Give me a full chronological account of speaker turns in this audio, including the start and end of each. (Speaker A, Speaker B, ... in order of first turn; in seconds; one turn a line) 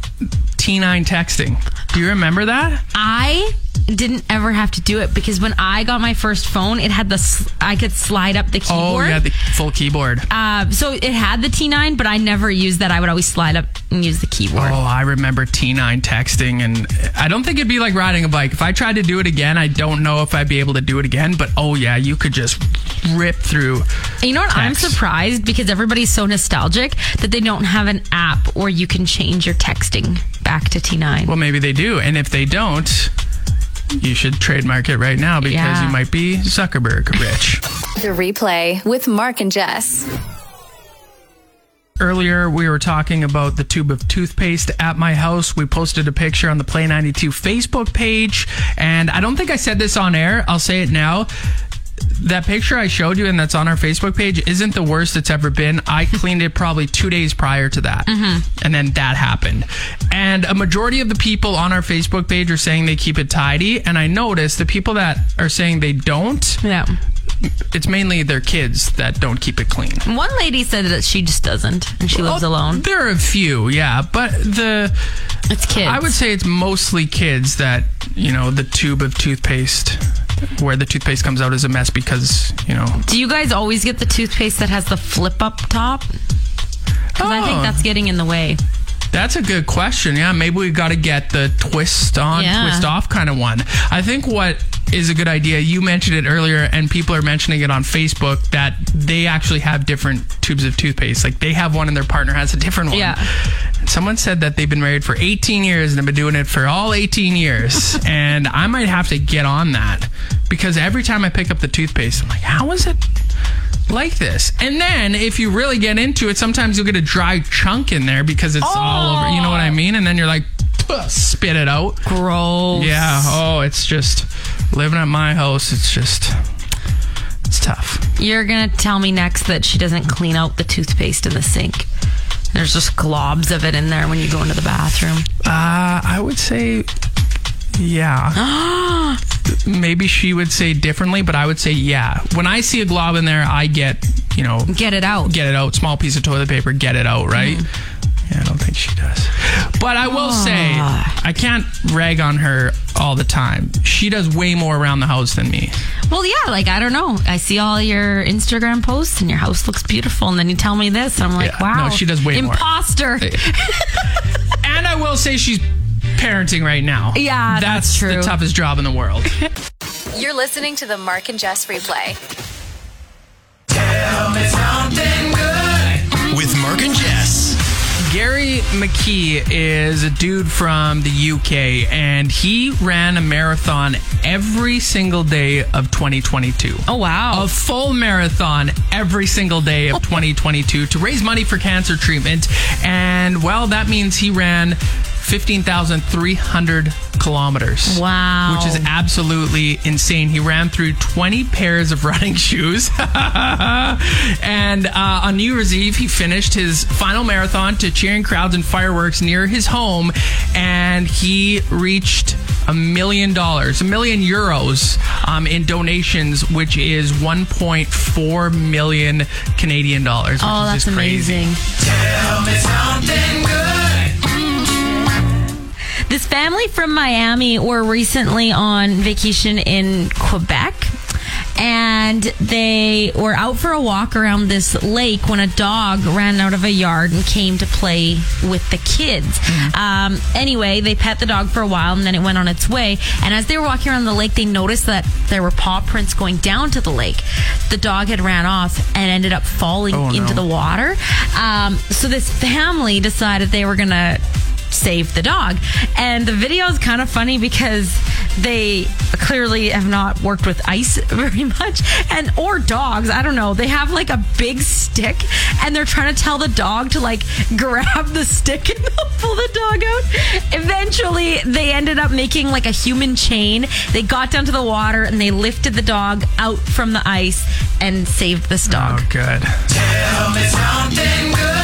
Speaker A: 0.6-2.8
Speaker B: 2.9-9.3
Speaker A: 8.7-10.3
Speaker B: 10.3-14.8
Speaker A: 14.6-23.9
Speaker B: 24.2-31.3
Speaker A: 24.5-25.0
Speaker A: 31.3-33.1
Speaker A: 34.0-37.6
Speaker B: 35.4-36.0
Speaker C: 38.0-40.1
Speaker A: 42.0-51.3
Speaker A: 52.1-66.6
Speaker B: 58.1-58.5
Speaker B: 66.6-67.0
Speaker A: 67.5-70.0
Speaker B: 70.0-72.8
Speaker A: 72.1-75.0
Speaker B: 75.5-76.2
Speaker A: 75.8-83.0
Speaker B: 83.0-86.1
Speaker A: 87.2-87.8
Speaker B: 87.2-88.6
Speaker A: 89.1-113.0
Speaker B: 92.3-92.9
Speaker B: 102.9-103.3
Speaker A: 113.9-122.0
Speaker B: 118.6-119.8
Speaker B: 122.0-123.4
Speaker A: 122.7-126.5
Speaker A: 127.5-128.1
Speaker B: 128.2-131.9
Speaker B: 132.5-135.3
Speaker A: 135.4-136.9
Speaker A: 137.8-138.4
Speaker B: 138.3-139.2
Speaker A: 139.5-147.7
Speaker B: 144.7-145.3
Speaker B: 147.3-147.7
Speaker A: 148.3-155.8
Speaker B: 150.1-151.2
Speaker B: 156.1-164.2
Speaker A: 161.4-162.6
Speaker A: 164.6-169.3
Speaker B: 167.1-168.4
Speaker C: 170.1-172.2
Speaker A: 173.8-221.5
Speaker B: 186.9-187.5
Speaker B: 197.9-198.9
Speaker B: 220.4-221.6
Speaker B: 226.1-230.9
Speaker B: 231.6-279.1
Speaker A: 239.5-239.7
Speaker A: 249.9-250.5
Speaker A: 278.7-279.9